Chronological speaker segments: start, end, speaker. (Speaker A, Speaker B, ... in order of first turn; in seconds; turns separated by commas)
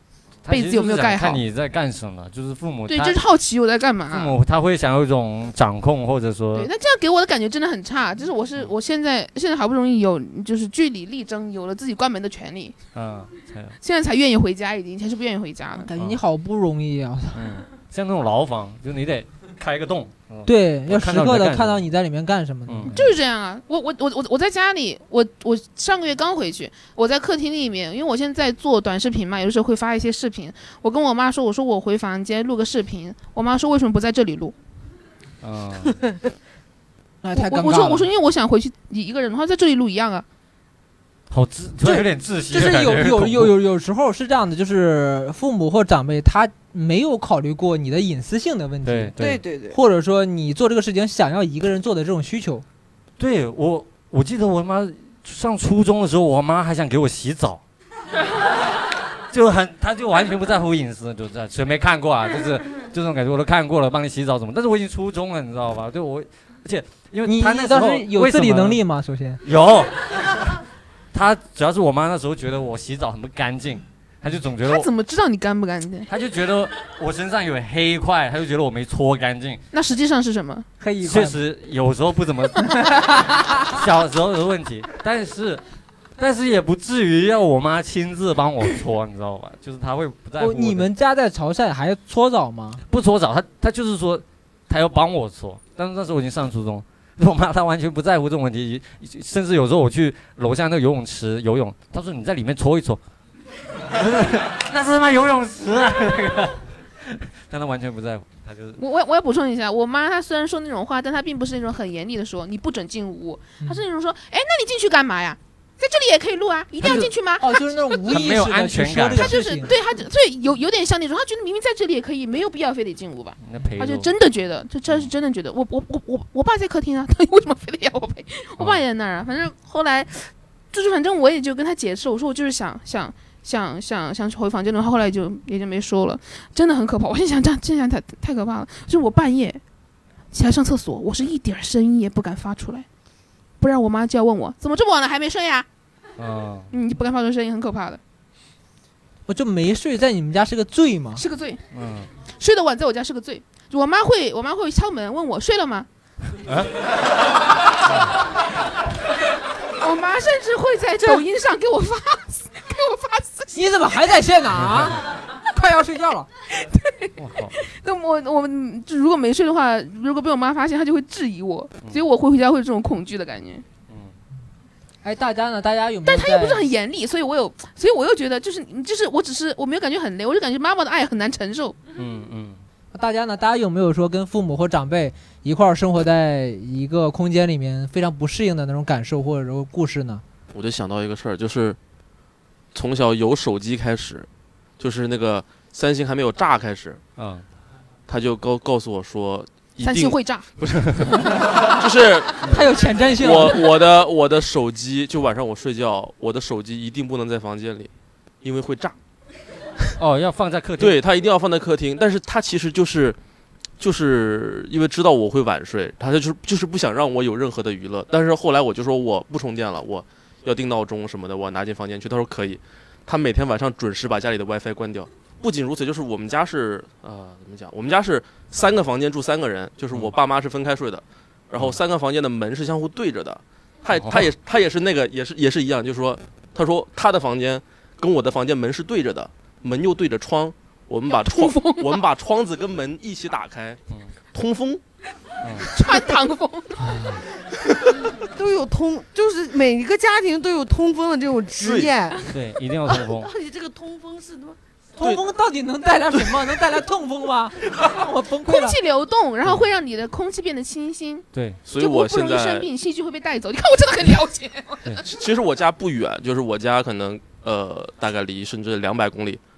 Speaker A: 0.5-3.2, Speaker B: 0.5-1.4, Speaker B: 2.9-4.3, Speaker A: 4.1-6.7, Speaker B: 6.5-12.8, Speaker A: 12.9-13.8, Speaker B: 13.8-15.9, Speaker C: 15.8-17.5, Speaker A: 17.4-21.8, Speaker C: 20.5-23.0, Speaker A: 22.7-23.1, Speaker B: 22.9-34.5, Speaker A: 35.4-36.0, Speaker C: 37.2-38.1, Speaker B: 37.4-40.2, Speaker A: 41.3-43.5, Speaker C: 41.8-49.1, Speaker A: 48.9-49.4, Speaker D: 49.2-49.8, Speaker C: 49.7-52.6, Speaker A: 53.2-57.6, Speaker A: 59.3-68.8, Speaker C: 67.2-69.4, Speaker A: 69.4-70.6, Speaker A: 71.1-74.9, Speaker B: 74.6-76.1, Speaker A: 76.1-79.6, Speaker B: 79.7-80.7, Speaker C: 80.8-81.4, Speaker A: 81.0-83.1, Speaker A: 83.6-85.6, Speaker A: 86.2-90.9, Speaker C: 90.4-92.8, Speaker A: 92.9-103.0, Speaker A: 103.9-108.8, Speaker B: 108.8-117.6, Speaker A: 116.8-117.1, Speaker C: 116.8-119.7, Speaker A: 118.1-119.4, Speaker B: 119.2-139.6, Speaker A: 123.4-124.1, Speaker B: 140.3-142.9, Speaker B: 143.6-145.7, Speaker A: 146.2-146.7, Speaker B: 146.7-148.0, Speaker C: 149.3-151.2, Speaker B: 151.2-151.6, Speaker A: 151.7-152.1, Speaker B: 152.4-155.9, Speaker A: 156.5-156.7, Speaker B: 159.8-163.9, Speaker C: 163.5-166.3, Speaker A: 164.7-164.9, Speaker B: 166.5-173.7, Speaker A: 167.2-167.6, Speaker A: 173.9-174.1, Speaker C: 175.0-176.7, Speaker B: 176.1-181.8, Speaker A: 181.9-182.6, Speaker C: 182.9-190.2, Speaker E: 190.5-191.8, Speaker E: 192.7-194.3, Speaker E: 194.8-197.0, Speaker A: 197.2-197.4, Speaker E: 198.1-200.2, Speaker B: 199.8-200.5, Speaker A: 200.7-201.0, Speaker E: 201.7-202.4, Speaker C: 202.4-203.6, Speaker E: 203.2-207.9, Speaker E: 208.4-208.9, Speaker A: 210.0-211.0, Speaker E: 210.8-213.2, Speaker E: 213.8-243.8, Speaker A: 233.9-234.3, Speaker B: 241.1-242.0, Speaker E: 244.3-244.8, Speaker A: 245.4-245.7, Speaker B: 245.6-246.9, Speaker D: 248.2-252.3, Speaker A: 251.6-253.3, Speaker D: 252.9-254.6, Speaker C: 255.0-258.8, Speaker B: 258.5-265.0, Speaker A: 261.3-261.6, Speaker E: 261.6-262.7, Speaker E: 265.0-269.4